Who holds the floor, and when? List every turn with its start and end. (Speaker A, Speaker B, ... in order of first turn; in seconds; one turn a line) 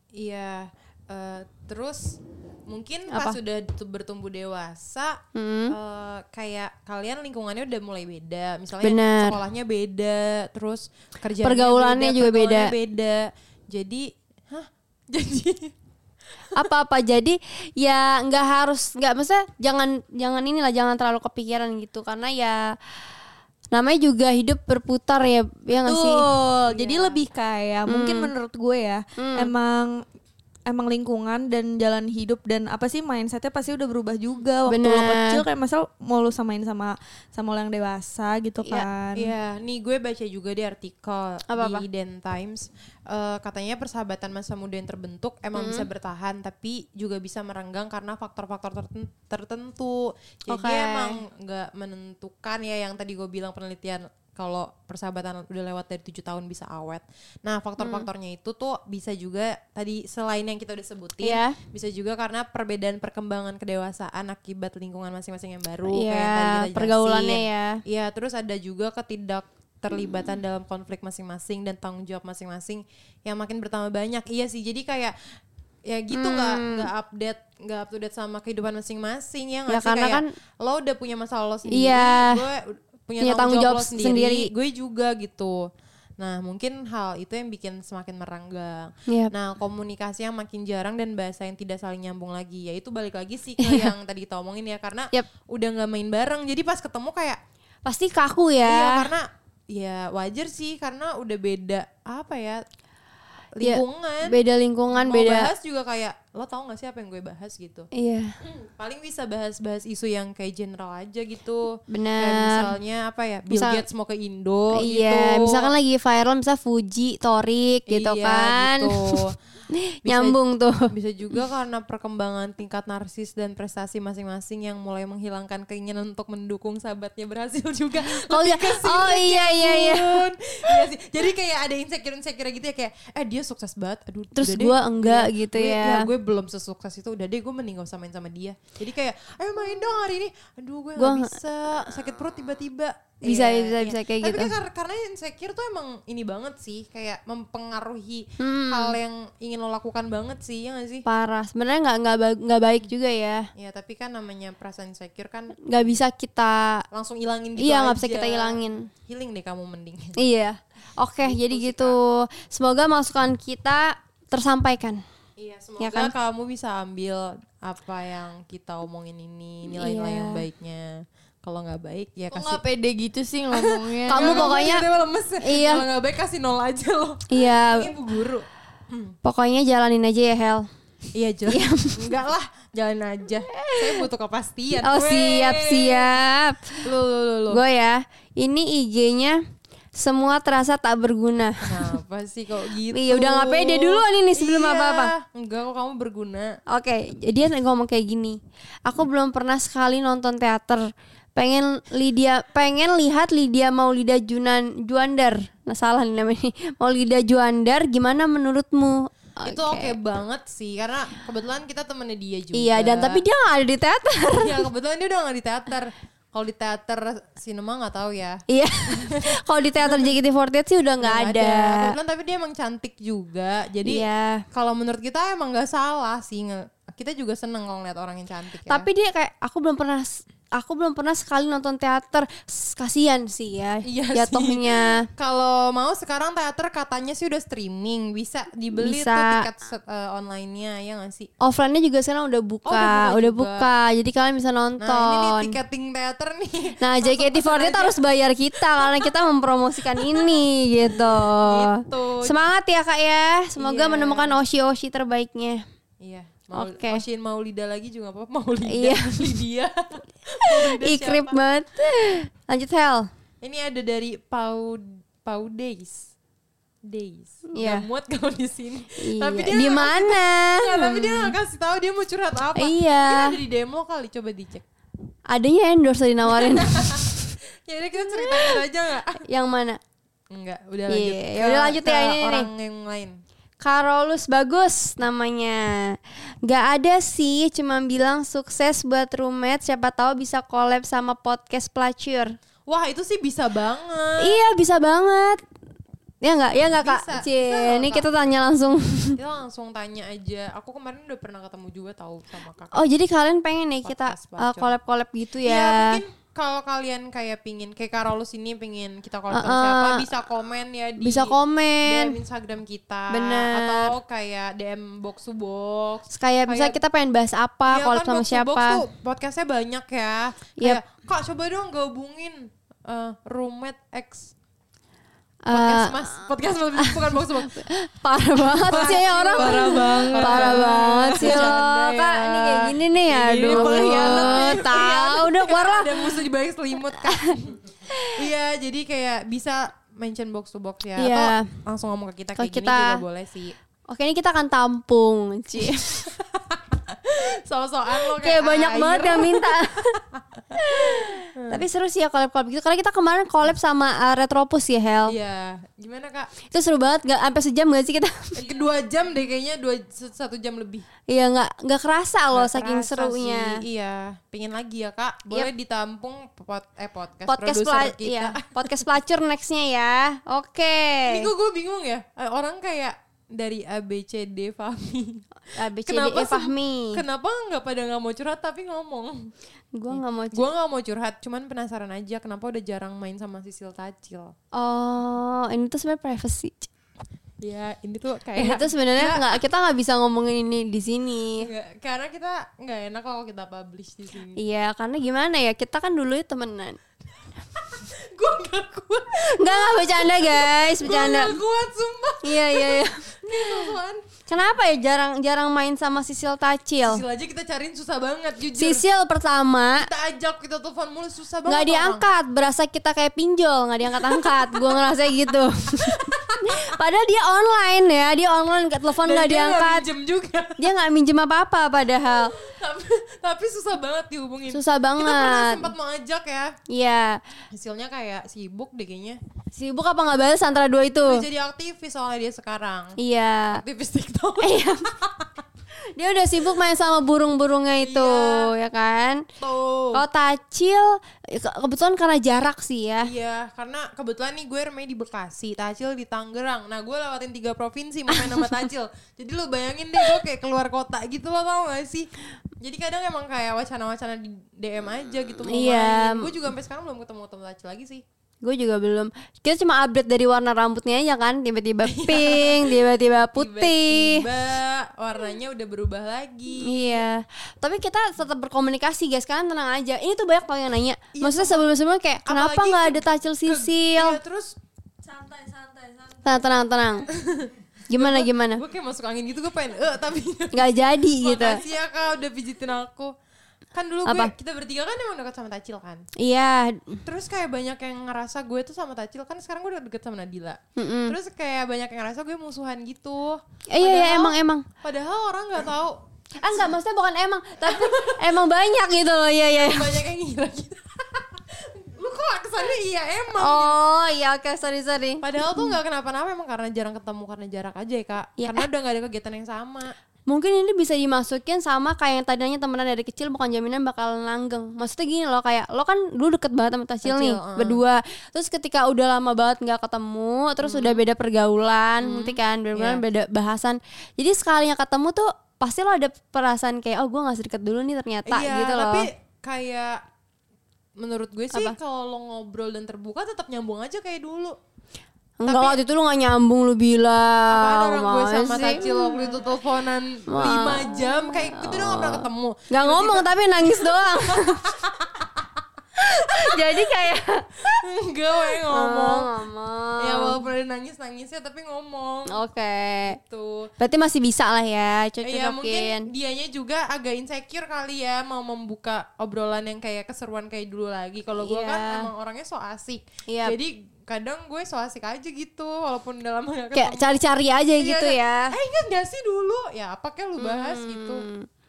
Speaker A: 0.2-5.2
Speaker B: 3.1-3.4
Speaker B: 5.3-5.8
Speaker A: 5.7-15.7
Speaker B: 8.8-9.4
Speaker B: 11.4-12.7
Speaker B: 16.6-22.7
Speaker B: 23.7-26.2
Speaker C: 25.8-30.1
Speaker A: 26.7-27.2
Speaker B: 27.9-28.3
Speaker B: 29.2-29.5
Speaker C: 30.7-39.3
Speaker B: 34.7-35.4
Speaker B: 38.6-38.9
Speaker A: 39.1-75.2
Speaker B: 41.5-41.9
Speaker B: 45.5-45.9
Speaker B: 50.5-51.2
Speaker B: 57.8-58.1
Speaker B: 61.2-61.6
Speaker B: 65.9-67.8
Speaker A: 75.9-85.7
Speaker B: 76.1-76.9
Speaker B: 79.7-80.3
Speaker B: 81.7-82.4
Speaker B: 83.2-84.5
Speaker A: 86.2-97.4
Speaker B: 93.6-93.9
Speaker B: 97.8-99.1
Speaker A: 98.6-102.6
Speaker A: 103.6-104.4
Speaker B: 103.6-105.5
Speaker A: 104.9-107.9
Speaker B: 107.9-108.3
Speaker A: 108.4-115.7
Speaker B: 111.9-112.7
Speaker B: 113.5-113.8
Speaker B: 114.8-119.2
Speaker A: 117.9-119.4
Speaker B: 119.7-120.8
Speaker A: 120.0-120.4
Speaker A: 120.9-151.1
Speaker B: 128.1-130.2
Speaker B: 134.3-136.1
Speaker B: 141.0-141.3
Speaker B: 143.2-144.5
Speaker B: 148.4-149.0
Speaker B: 151.1-153.5
Speaker A: 153.6-155.6
Speaker B: 155.7-156.8
Speaker A: 156.9-160.2
Speaker B: 157.6-158.9
Speaker B: 160.2-165.0
Speaker A: 161.2-162.0
Speaker A: 165.4-172.6
Speaker B: 165.8-166.1
Speaker B: 169.7-170.4
Speaker C: 172.3-174.6
Speaker A: 173.5-179.2
Speaker B: 174.1-174.9
Speaker B: 175.4-175.9
Speaker B: 177.3-177.9
Speaker B: 179.2-180.7
Speaker A: 181.1-186.2
Speaker B: 181.5-182.1
Speaker B: 183.6-184.0
Speaker B: 184.8-186.9
Speaker A: 186.8-187.6
Speaker B: 187.5-189.4
Speaker B: 189.9-192.0
Speaker A: 191.6-196.6
Speaker B: 192.9-195.1
Speaker B: 196.7-200.8
Speaker B: 201.3-209.9
Speaker A: 209.5-213.2
Speaker B: 212.5-214.7
Speaker A: 214.4-220.1
Speaker B: 218.5-221.9
Speaker A: 221.0-224.0
Speaker B: 223.8-224.4
Speaker A: 224.5-228.9
Speaker B: 228.7-234.9
Speaker A: 233.8-241.3
Speaker B: 238.7-239.5
Speaker B: 241.4-245.6
Speaker A: 242.7-243.7
Speaker A: 244.8-248.0
Speaker B: 246.8-255.6
Speaker A: 248.6-249.2
Speaker A: 249.9-250.4
Speaker A: 251.0-252.4
Speaker A: 253.6-254.4
Speaker A: 256.0-261.4
Speaker B: 256.5-257.0
Speaker B: 258.7-259.4
Speaker B: 260.5-263.1
Speaker A: 263.4-266.1
Speaker A: 266.9-274.6
Speaker B: 267.5-267.9
Speaker B: 269.0-271.4
Speaker B: 272.6-273.4
Speaker B: 275.3-277.1
Speaker A: 276.3-279.2
Speaker B: 278.0-278.6
Speaker B: 279.2-279.8
Speaker A: 280.3-283.2
Speaker B: 280.9-282.5
Speaker B: 283.6-285.7
Speaker B: 286.4-292.3
Speaker A: 292.7-294.4
Speaker B: 294.2-295.4
Speaker B: 296.2-299.2
Speaker A: 296.8-298.4
Speaker A: 299.1-302.9
Speaker B: 302.7-306.0
Speaker A: 303.8-304.8
Speaker A: 305.4-316.8
Speaker B: 309.3-310.1
Speaker B: 311.0-312.2
Speaker B: 313.1-313.9
Speaker B: 316.1-318.8
Speaker A: 317.7-324.3
Speaker B: 325.4-336.2
Speaker A: 325.5-327.6
Speaker A: 328.4-331.7
Speaker C: 328.7-334.7
Speaker A: 333.2-343.5
Speaker B: 337.1-337.3
Speaker B: 341.0-341.5
Speaker B: 342.4-343.0
Speaker B: 343.9-346.0
Speaker A: 345.6-351.6
Speaker B: 348.0-350.0
Speaker B: 350.6-355.1
Speaker A: 355.1-356.3
Speaker B: 356.5-358.6
Speaker A: 358.4-360.9
Speaker B: 361.1-363.6
Speaker A: 362.3-368.9
Speaker B: 367.3-371.3
Speaker A: 371.1-375.3
Speaker B: 375.5-377.0
Speaker A: 375.9-379.3
Speaker B: 379.8-380.5
Speaker A: 379.9-384.3
Speaker B: 384.5-386.7
Speaker A: 387.4-389.3
Speaker B: 388.4-391.5
Speaker A: 391.4-394.4
Speaker B: 394.4-396.8
Speaker A: 397.6-404.1
Speaker B: 399.4-401.4
Speaker B: 402.2-403.8
Speaker B: 404.3-407.0
Speaker A: 406.8-408.9
Speaker B: 408.5-409.9
Speaker A: 409.8-412.1
Speaker B: 411.5-419.9
Speaker A: 413.9-414.9
Speaker A: 415.8-416.4
Speaker A: 419.0-420.7
Speaker B: 420.6-422.3
Speaker A: 422.1-426.5
Speaker B: 424.5-425.7
Speaker B: 426.7-427.2
Speaker A: 427.5-429.2
Speaker B: 429.5-431.2
Speaker A: 431.1-432.9
Speaker B: 433.0-433.6
Speaker A: 433.5-435.3
Speaker B: 434.4-434.8
Speaker B: 436.0-439.2
Speaker A: 437.8-438.5
Speaker A: 439.4-440.0
Speaker B: 439.9-443.1
Speaker A: 443.0-452.1
Speaker A: 452.6-458.0
Speaker B: 455.5-456.3
Speaker B: 458.4-464.3
Speaker A: 461.8-467.1
Speaker B: 466.6-474.2
Speaker A: 471.1-471.7
Speaker A: 472.2-474.6
Speaker C: 475.1-476.3
Speaker B: 476.2-477.1
Speaker A: 477.1-483.1
Speaker B: 477.9-478.6
Speaker B: 480.5-481.6
Speaker A: 483.7-486.1
Speaker B: 484.1-484.3
Speaker B: 486.2-487.0
Speaker A: 487.1-496.8
Speaker B: 490.8-491.1
Speaker B: 493.7-494.6
Speaker B: 496.4-500.0
Speaker A: 497.6-498.4
Speaker A: 499.5-503.8
Speaker B: 503.4-505.8
Speaker A: 505.2-509.9
Speaker B: 508.4-508.7
Speaker B: 510.3-529.1
Speaker A: 517.0-517.8
Speaker A: 520.6-521.0
Speaker A: 522.0-523.0
Speaker A: 528.3-530.0
Speaker A: 531.0-534.6
Speaker B: 535.4-539.5
Speaker A: 535.4-535.8
Speaker A: 537.5-545.4
Speaker B: 540.3-544.7
Speaker B: 546.0-547.6
Speaker A: 546.5-546.9
Speaker A: 547.7-549.3
Speaker B: 548.7-550.4
Speaker A: 550.0-552.4
Speaker B: 552.3-553.2
Speaker A: 553.1-553.7
Speaker B: 553.8-556.1
Speaker A: 555.2-567.2
Speaker B: 561.4-562.1
Speaker B: 563.3-563.5
Speaker B: 566.7-568.5
Speaker A: 567.8-571.3
Speaker B: 570.4-571.5